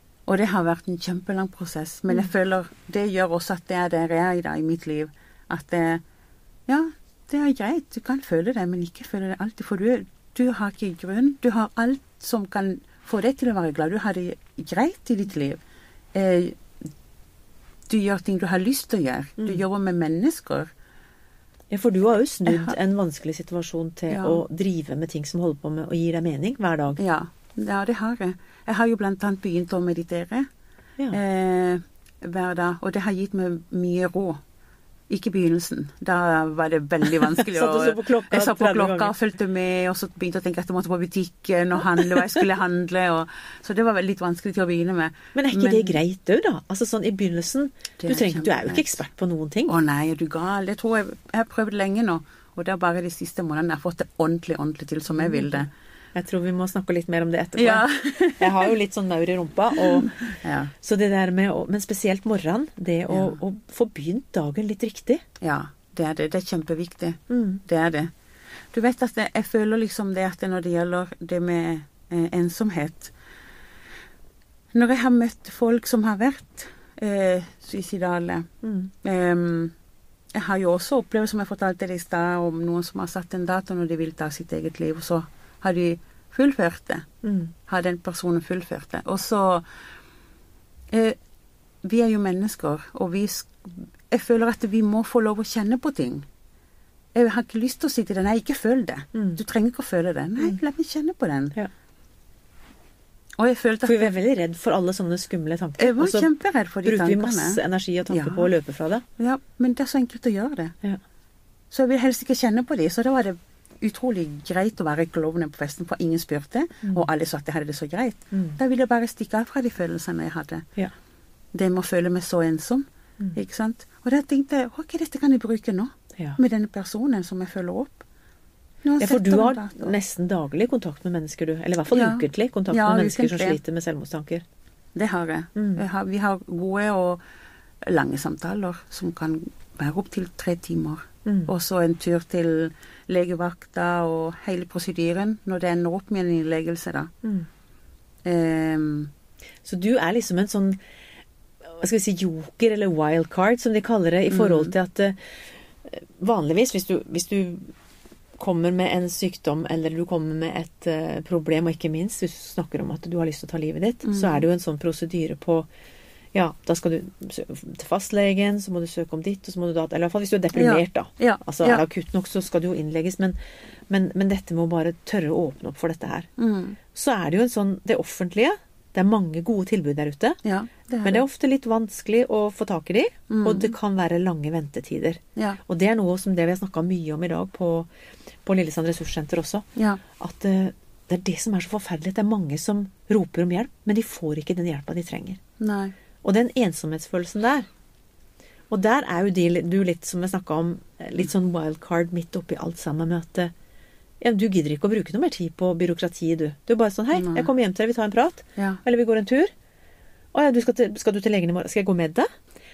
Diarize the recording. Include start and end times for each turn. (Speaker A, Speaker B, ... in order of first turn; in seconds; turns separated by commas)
Speaker A: 0.3-6.0, Speaker A: 6.7-15.6, Speaker A: 16.1-16.6, Speaker A: 17.9-20.7, Speaker B: 21.7-27.0, Speaker A: 22.4-22.8, Speaker A: 24.1-24.4, Speaker A: 27.0-30.5, Speaker A: 31.1-34.4, Speaker A: 35.1-46.0, Speaker B: 37.3-39.1, Speaker B: 42.0-42.2, Speaker B: 45.3-49.7, Speaker A: 48.0-49.0, Speaker A: 49.7-55.7, Speaker B: 55.1-55.6, Speaker B: 56.1-57.8, Speaker A: 57.6-58.7, Speaker B: 58.4-65.2, Speaker A: 59.7-60.7, Speaker A: 63.1-63.4, Speaker A: 65.4-68.1, Speaker B: 67.3-67.6, Speaker A: 68.7-73.1, Speaker A: 74.7-78.5, Speaker B: 78.6-78.9, Speaker A: 79.0-79.7, Speaker A: 80.3-87.0, Speaker B: 87.2-87.5, Speaker A: 87.7-89.6, Speaker A: 90.9-91.2, Speaker A: 91.8-96.2, Speaker A: 97.1-101.5, Speaker B: 99.1-99.4, Speaker A: 103.4-104.1, Speaker B: 103.8-106.3, Speaker A: 105.8-108.5, Speaker B: 106.8-109.0, Speaker A: 109.2-110.7, Speaker A: 111.7-120.7, Speaker B: 118.3-118.6, Speaker A: 121.5-128.0, Speaker A: 128.8-129.9, Speaker B: 129.0-134.4, Speaker A: 131.9-133.6, Speaker A: 134.9-137.2, Speaker B: 135.5-135.8, Speaker A: 137.8-147.1, Speaker A: 148.2-149.1, Speaker B: 149.6-150.8, Speaker B: 151.6-155.2, Speaker A: 154.3-154.7, Speaker B: 155.8-157.7, Speaker B: 158.4-165.7, Speaker A: 164.0-164.4, Speaker B: 166.3-173.4, Speaker A: 170.5-171.8, Speaker B: 173.9-176.3, Speaker A: 176.4-176.8, Speaker B: 176.9-180.4, Speaker A: 180.4-181.2, Speaker B: 181.0-187.9, Speaker A: 183.3-183.7, Speaker B: 188.4-189.7, Speaker A: 189.8-190.0, Speaker B: 190.2-195.4, Speaker A: 195.6-195.9, Speaker B: 196.2-197.7, Speaker B: 198.7-203.5, Speaker B: 204.2-209.5, Speaker A: 207.1-207.5, Speaker B: 210.3-212.3